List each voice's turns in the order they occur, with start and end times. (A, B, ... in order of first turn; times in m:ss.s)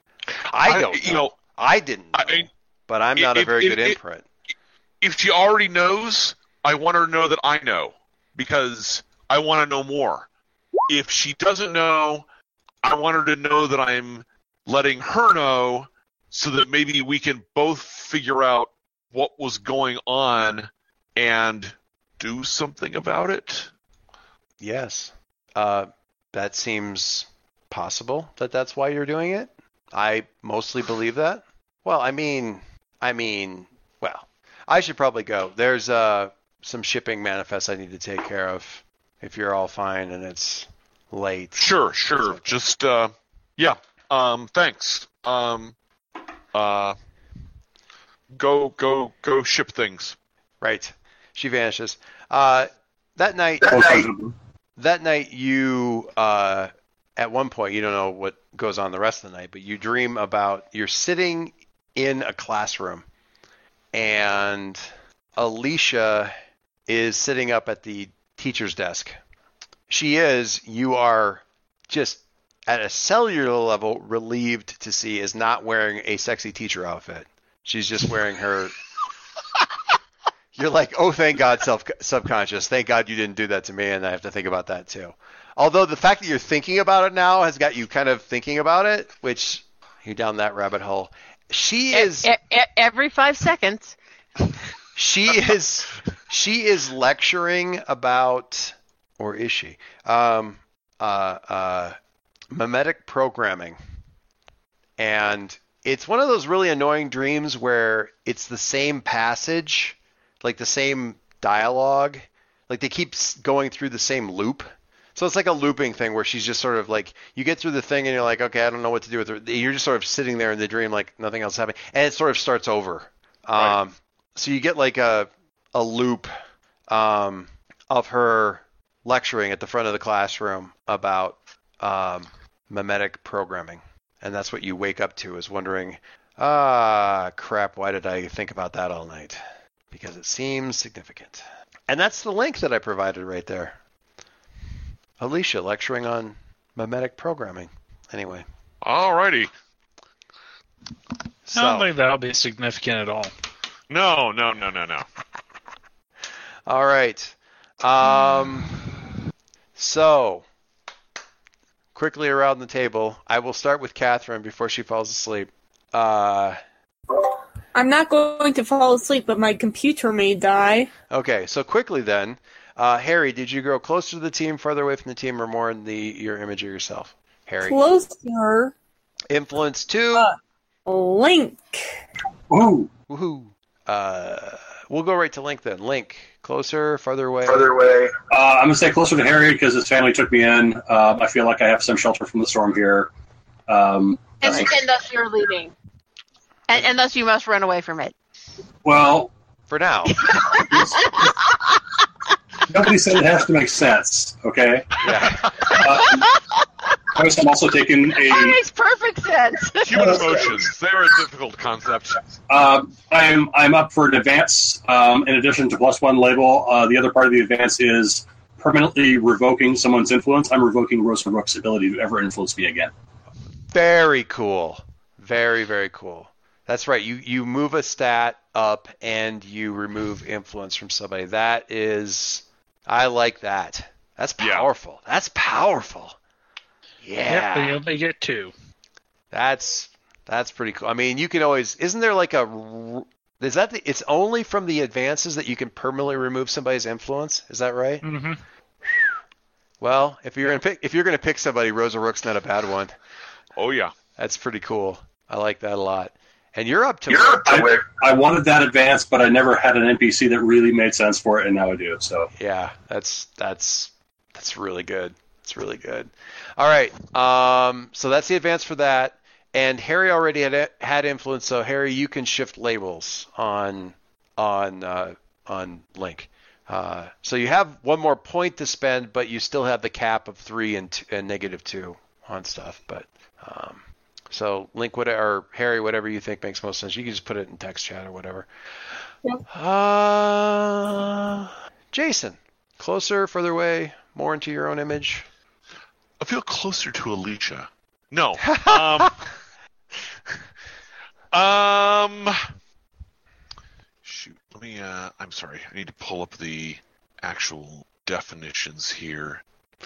0:00.4-0:04.2 A
0:00.6-0:01.4 B
0:02.1-0:02.4 B
0:03.2-0:04.0 B
0:05.0-0:10.3 B
0:10.9-0:12.2 B
0:12.8-0:23.7 B
0:24.6-0:41.7 A
0:41.6-0:45.8 B
0:42.2-0:42.5 A
0:46.5-0:47.0 B
0:48.3-0:50.2 B
0:50.6-0:54.0 A
0:53.7-0:54.3 C
0:54.8-1:03.1 A
1:03.9-1:06.3 A
1:06.9-1:09.2 A
1:09.9-1:18.8 A
1:20.5-1:32.3 A
1:31.9-1:34.0 D
1:34.9-1:42.0 A
1:42.5-1:43.8 A
1:45.0-2:06.3 A
2:06.9-2:23.8 A
2:25.2-2:28.4 A
2:28.8-2:29.5 B
2:31.4-2:31.9 A
2:31.5-2:33.3 E
2:33.9-2:35.0 B
2:36.6-2:38.8 A
2:39.8-2:40.4 A
2:41.9-2:46.6 A
2:47.7-2:50.9 F
2:51.1-2:57.8 A
2:57.6-2:58.7 F
2:59.3-3:00.3 A
3:00.8-3:01.8 F
3:02.5-3:02.9 C
3:03.1-3:07.8 A
3:07.7-3:13.1 C
3:13.7-3:14.7 C
3:14.4-3:15.7 D
3:16.7-3:18.1 D
3:18.8-3:19.3 C
3:19.7-3:20.3 A
3:20.2-3:21.6 D
3:20.5-3:21.3 C
3:22.7-3:26.3 C
3:25.0-3:25.7 A
3:26.2-3:26.6 D
3:27.1-3:28.6 C
3:28.2-3:30.4 D
3:29.8-3:32.3 B
3:32.5-3:42.9 C
3:43.7-3:56.2 A
3:54.4-3:54.7 B
3:57.0-3:57.8 A
3:57.3-3:58.5 E
3:59.3-4:08.0 A
4:08.0-4:08.4 E
4:08.8-4:09.1 A
4:09.8-4:13.0 A
4:13.6-4:13.9 B
4:14.2-4:17.7 A
4:17.1-4:22.3 C
4:22.4-4:48.5 A
4:49.5-4:55.3 A
4:56.2-4:59.3 B
4:58.5-4:59.1 A
5:01.3-5:02.5 B
5:04.0-5:09.4 B